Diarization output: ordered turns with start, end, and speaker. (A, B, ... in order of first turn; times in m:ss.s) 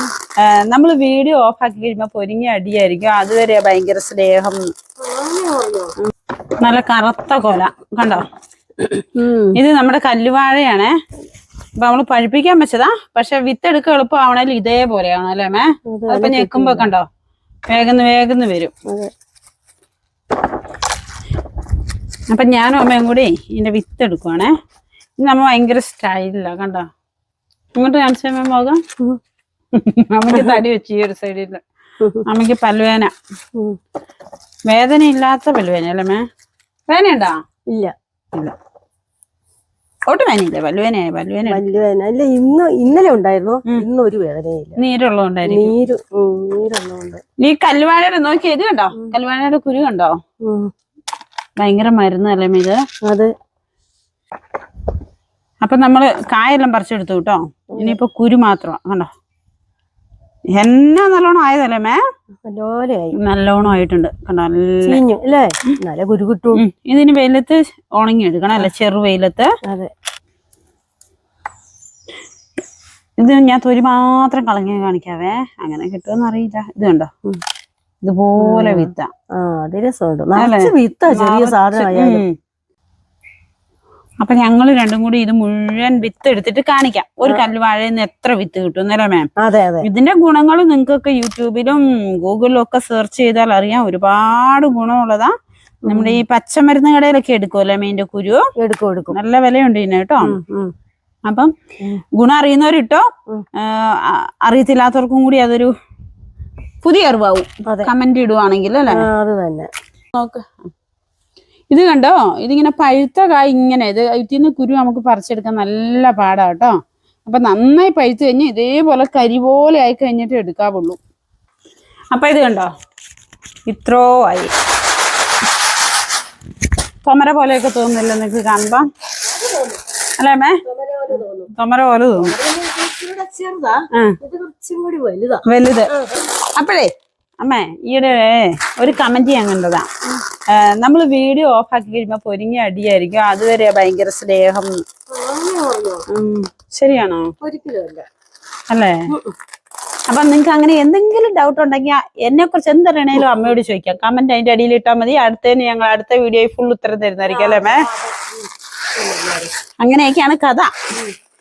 0:00.4-0:04.7 A
0:05.0-0:05.9 B
0:06.0-0:08.3 A
0:08.8-0:11.0 A
0:09.2-0:09.6 B
0:11.8-0:17.1 A
0:15.9-0:16.9 B
0:17.7-0:18.7 A
0:22.3-0:24.5 A
0:25.2-0:26.9 A
0:27.8-0:28.8 A
0:29.7-0:31.6 A
0:30.3-0:30.6 B
0:32.0-0:32.3 B
0:32.2-0:33.1 A
0:34.7-0:36.3 A
0:36.9-0:37.4 A
0:40.1-0:41.6 A
0:41.5-0:44.8 B
0:44.8-0:45.8 A
0:45.5-0:47.2 B
0:47.4-0:50.2 A
0:50.4-0:50.7 B
0:51.6-0:52.8 A
0:53.0-0:53.3 B
0:55.6-0:59.1 A
0:57.7-0:58.0 B
1:00.5-1:02.0 A
1:02.4-1:03.7 B
1:03.2-1:05.0 A
1:04.8-1:06.6 B
1:06.6-1:09.5 A
1:09.7-1:09.9 B
1:13.2-1:17.1 A
1:18.0-1:19.1 A
1:18.4-1:22.2 B
1:20.4-1:22.3 A
1:24.2-1:29.3 A
1:29.4-1:29.9 B
1:29.8-1:35.3 A
1:35.9-1:36.2 B
1:35.9-1:38.5 A
1:38.6-1:39.2 B
1:39.1-1:40.4 A
1:40.2-1:40.7 B
1:42.2-1:45.7 A
1:46.8-1:49.0 A
1:47.7-1:47.9 B
1:48.9-1:49.7 B
1:50.1-1:50.5 A
1:51.7-2:01.0 A
2:02.1-2:02.7 A
2:03.7-2:04.5 A
2:07.0-2:08.9 A
2:09.4-2:09.8 B
2:10.2-2:10.6 A
2:10.6-2:11.5 B
2:11.5-2:12.3 A
2:12.2-2:16.1 B
2:15.5-2:15.9 A
2:16.6-2:19.9 A
2:20.5-2:24.8 A
2:25.1-2:26.0 B
2:26.1-2:27.3 A
2:27.4-2:28.1 B
2:28.7-2:29.0 A
2:30.1-2:37.9 A
2:37.3-2:39.5 B
2:39.8-2:40.7 A